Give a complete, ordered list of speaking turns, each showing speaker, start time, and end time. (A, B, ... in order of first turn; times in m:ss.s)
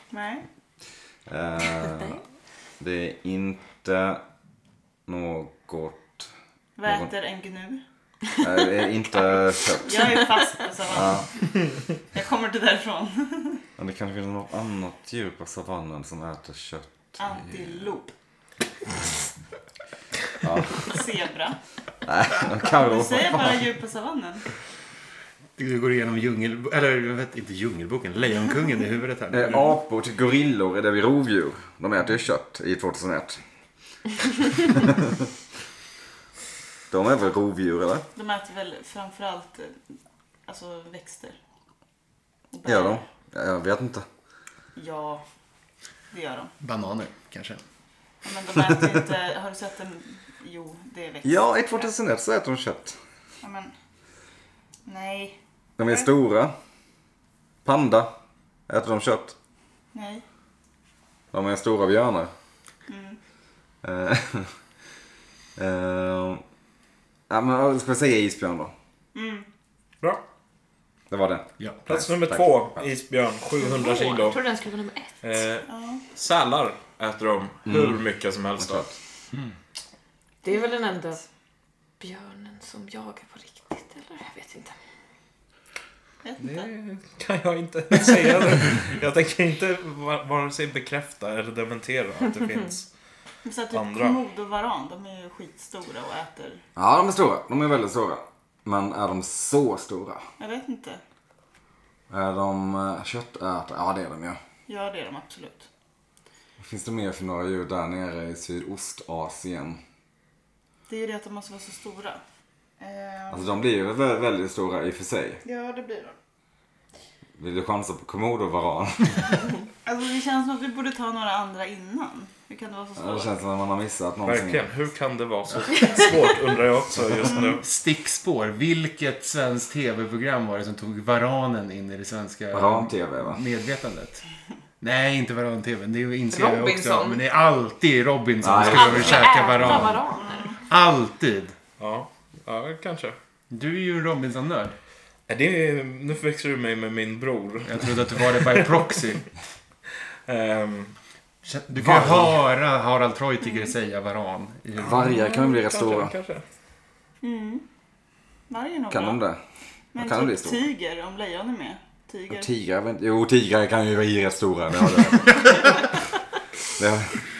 0:00.1-0:00.4 A
0:01.3-0:02.2 B
0:02.8-0:04.2 B
0:05.0-0:06.3 B
0:06.8-0:07.8 A
0:08.4-0:10.1 B
0:09.3-0:11.3 A
0:10.9-0:11.2 B
0:12.1-0:13.6 A
0:13.8-0:17.8 B
0:17.2-0:18.1 A
0:20.4-0:20.9 B
0:20.8-0:21.6 A
0:22.0-0:23.6 B
0:22.7-0:24.4 A
0:25.6-0:29.8 C
0:29.3-0:33.4 B
0:34.8-0:35.1 B
0:36.9-0:38.0 B
0:38.1-0:39.8 A
0:40.4-0:41.4 A
0:42.5-0:43.0 A
0:42.6-0:44.0 B
0:44.8-0:45.2 A
0:46.1-0:46.5 A
0:46.6-0:47.6 C
0:48.2-0:51.8 A
0:51.2-0:53.0 B
0:53.4-0:53.7 A
0:54.8-0:56.1 A
0:55.8-0:56.5 B
0:57.6-0:58.1 B
0:58.7-0:59.4 B
0:59.9-1:00.2 A
1:01.3-1:02.3 B
1:02.9-1:03.2 A
1:03.8-1:04.5 B
1:05.6-1:06.4 B
1:07.3-1:08.7 B
1:09.1-1:09.4 A
1:11.1-1:12.8 B
1:11.8-1:14.4 D
1:13.6-1:15.2 E
1:15.2-1:18.9 D
1:15.7-1:16.0 A
1:17.6-1:18.0 B
1:18.6-1:18.9 B
1:20.4-1:21.2 E
1:22.0-1:24.7 E
1:26.2-1:26.7 A
1:26.4-1:32.9 D
1:33.4-1:36.6 A
1:33.7-1:34.2 D
1:36.8-1:40.2 B
1:40.4-1:41.0 A
1:42.1-1:44.4 B
1:44.7-1:45.7 A
1:46.6-1:49.8 B
1:50.9-1:52.2 A
1:52.8-1:53.6 A
1:53.3-1:55.4 B
1:55.4-1:56.1 A
1:57.4-1:59.2 B
1:59.8-2:03.3 A
2:03.0-2:04.6 B
2:04.2-2:07.6 D
2:07.6-2:14.2 C
2:12.5-2:13.4 B
2:14.8-2:20.0 C
2:16.3-2:17.2 E
2:18.4-2:19.9 B
2:18.7-2:20.6 E
2:20.1-2:20.6 A
2:20.7-2:21.5 C
2:21.8-2:23.2 D
2:23.5-2:24.7 C
2:25.3-2:28.6 D
2:27.6-2:29.3 C
2:30.3-2:30.9 D
2:31.4-2:35.0 C
2:31.8-2:32.3 B
2:34.8-2:36.1 B
2:34.9-2:36.4 D
2:37.2-2:37.6 A
2:38.5-2:39.2 A
2:38.9-2:39.4 B
2:39.9-2:42.5 A
2:40.0-2:40.6 B
2:42.3-2:45.9 B
2:46.8-2:47.2 B